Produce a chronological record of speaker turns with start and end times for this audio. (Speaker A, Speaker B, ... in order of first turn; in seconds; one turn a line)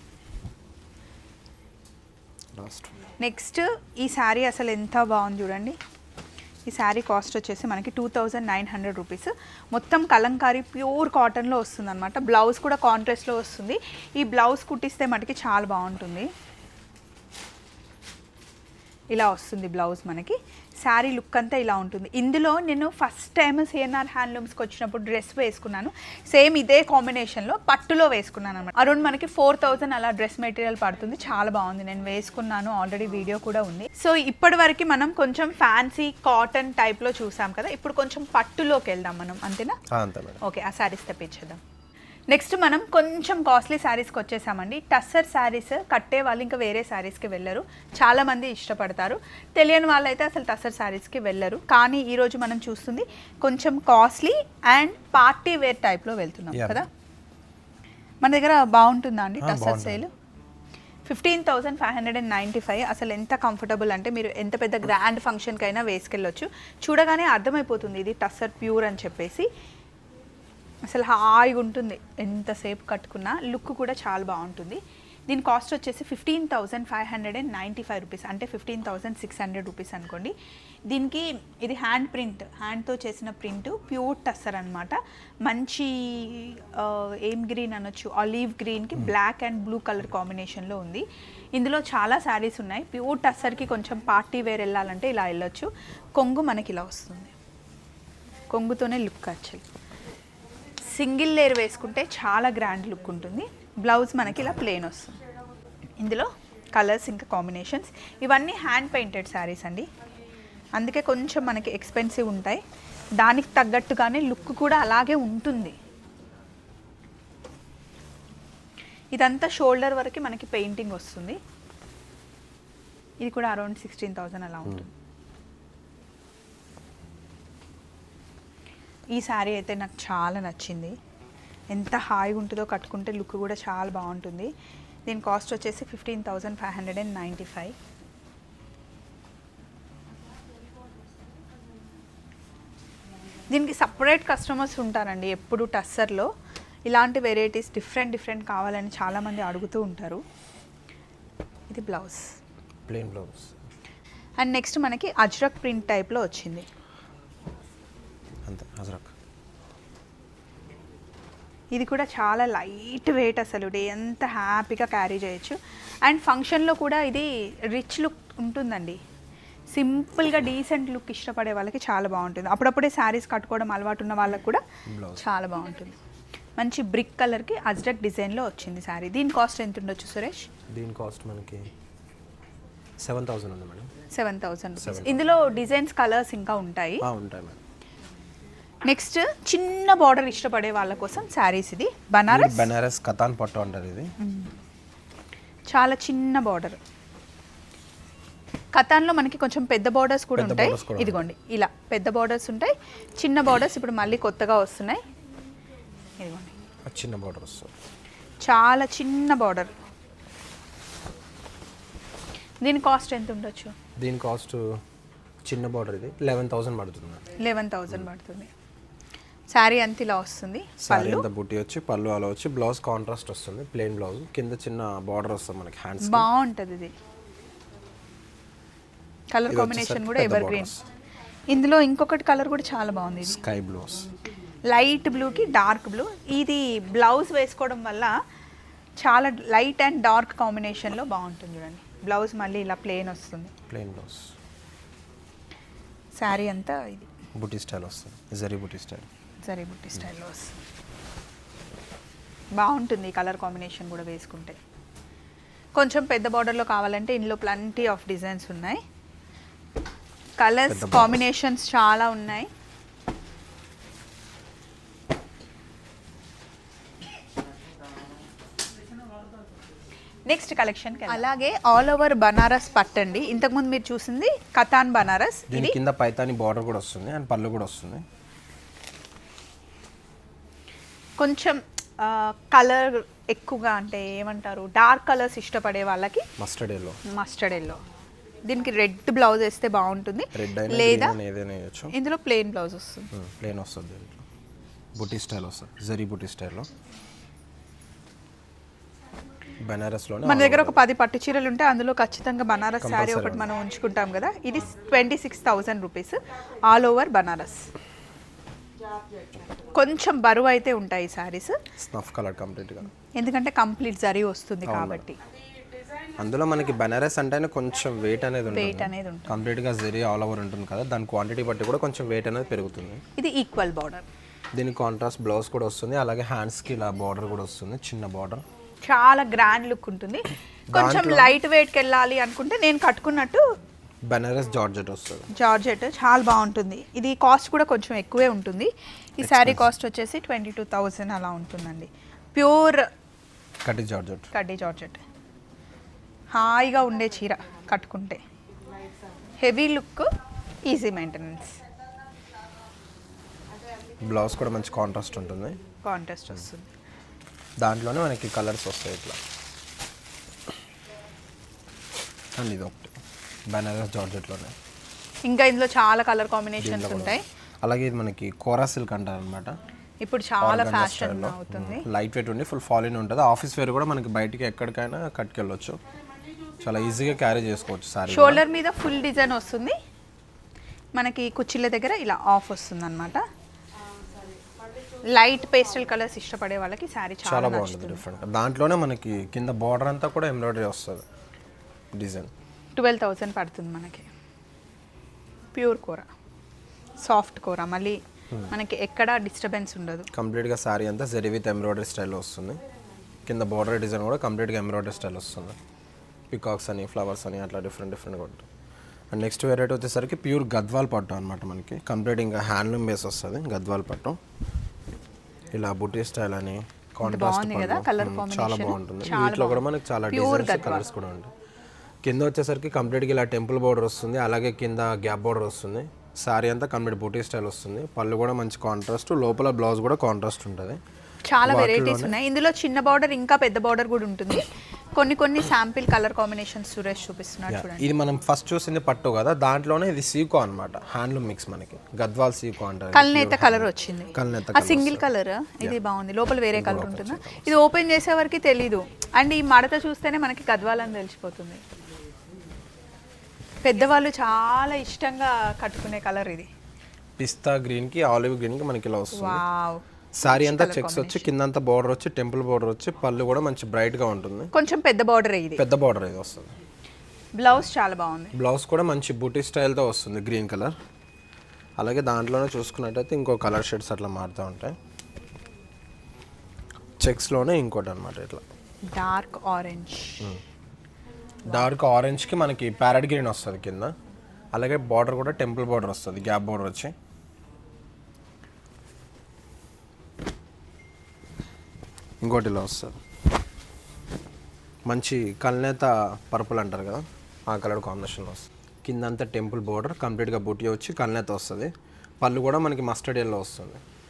Speaker A: 2.5-2.9
Speaker B: 3.2-5.8
Speaker B: 6.7-16.3
Speaker B: 19.1-39.8
Speaker A: 39.9-40.4
Speaker B: 40.4-41.6
Speaker B: 42.3-56.9
Speaker A: 56.5-56.8
Speaker B: 58.2-60.1
Speaker A: 59.4-60.0
Speaker B: 61.1-69.5
Speaker B: 70.9-80.3
Speaker B: 80.9-97.3
Speaker B: 98.5-99.6
Speaker B: 100.9-105.2
Speaker B: 106.0-109.9
Speaker B: 110.8-112.6
Speaker B: 113.2-115.8
Speaker B: 119.1-121.4
Speaker B: 123.2-124.9
Speaker B: 129.1-131.0
Speaker B: 131.7-134.5
Speaker B: 135.1-137.7
Speaker B: 143.5-146.3
Speaker B: 146.9-150.2
Speaker B: 151.7-152.3
Speaker A: 152.9-153.6
Speaker B: 154.4-156.7
Speaker A: 158.5-159.1
Speaker B: 161.8-169.0
Speaker B: 169.7-174.6
Speaker A: 174.9-175.2
Speaker B: 175.2-176.0
Speaker B: 176.6-180.5
Speaker A: 180.7-181.7
Speaker A: 183.0-183.9
Speaker B: 184.1-187.1
Speaker A: 184.8-185.2
Speaker A: 187.0-187.6
Speaker B: 188.8-192.7
Speaker A: 192.3-194.1
Speaker B: 194.2-194.5
Speaker B: 195.7-196.8
Speaker B: 198.7-205.0
Speaker A: 200.4-201.2
Speaker B: 206.2-206.5
Speaker A: 206.9-207.7
Speaker B: 208.4-209.7
Speaker B: 212.6-213.8
Speaker A: 214.0-214.7
Speaker A: 215.4-217.2
Speaker B: 217.4-218.5
Speaker B: 219.5-221.3
Speaker A: 220.8-226.3
Speaker B: 226.0-226.9
Speaker B: 229.3-230.8
Speaker A: 229.5-230.8
Speaker B: 231.5-233.4
Speaker A: 233.3-234.1
Speaker B: 234.7-238.1
Speaker B: 239.0-243.5
Speaker A: 243.7-244.3
Speaker B: 246.2-247.1
Speaker A: 247.4-249.1
Speaker B: 249.4-250.6
Speaker B: 252.6-254.6
Speaker B: 255.8-258.8
Speaker B: 260.4-262.5
Speaker A: 260.7-261.2
Speaker B: 270.3-275.8
Speaker A: 275.5-278.0
Speaker B: 281.2-286.3
Speaker A: 286.4-287.0
Speaker B: 287.1-287.8
Speaker B: 288.5-291.1
Speaker A: 290.4-291.9
Speaker B: 291.9-293.1
Speaker A: 293.1-294.2
Speaker A: 295.0-296.7
Speaker A: 299.6-300.8
Speaker B: 300.2-307.7
Speaker A: 302.8-303.5
Speaker B: 309.7-311.6
Speaker A: 311.8-312.9
Speaker B: 313.2-315.2
Speaker A: 314.6-315.1
Speaker A: 316.2-323.0
Speaker B: 318.5-319.4
Speaker B: 323.2-324.1
Speaker A: 324.5-328.4
Speaker B: 328.9-333.4
Speaker A: 330.7-331.4
Speaker A: 334.1-335.3
Speaker B: 335.3-342.9
Speaker A: 339.2-339.7
Speaker A: 343.6-344.3
Speaker B: 344.3-345.0
Speaker B: 346.3-348.2
Speaker B: 349.4-350.1
Speaker B: 350.7-351.6
Speaker A: 354.0-355.6
Speaker B: 355.8-356.7
Speaker A: 357.6-359.2
Speaker A: 362.4-362.9
Speaker A: 363.5-364.6
Speaker B: 365.3-367.2
Speaker A: 366.6-369.6
Speaker B: 370.0-371.9
Speaker A: 370.4-375.8
Speaker A: 376.6-378.4
Speaker B: 378.1-379.8
Speaker B: 381.0-383.2
Speaker B: 385.1-388.0
Speaker A: 387.2-391.1
Speaker A: 391.9-392.3
Speaker B: 392.8-394.1
Speaker B: 395.6-396.1
Speaker B: 397.0-400.1
Speaker A: 400.1-402.6
Speaker A: 403.3-405.6
Speaker A: 406.3-408.4
Speaker A: 409.1-414.2
Speaker A: 415.5-421.3
Speaker B: 417.0-420.9
Speaker A: 422.0-430.8
Speaker B: 431.3-437.9
Speaker A: 431.4-432.1
Speaker A: 437.5-445.0
Speaker B: 442.9-451.6
Speaker A: 446.5-447.5
Speaker B: 453.6-456.5
Speaker A: 457.2-459.4
Speaker B: 459.1-461.3
Speaker A: 460.2-464.5
Speaker B: 464.5-465.6
Speaker A: 465.6-466.5
Speaker B: 467.4-468.4
Speaker A: 468.4-470.8
Speaker A: 471.8-474.8
Speaker A: 477.0-478.4
Speaker B: 478.9-480.3
Speaker A: 481.4-483.9
Speaker A: 484.5-486.9
Speaker A: 492.2-493.0
Speaker A: 494.9-503.8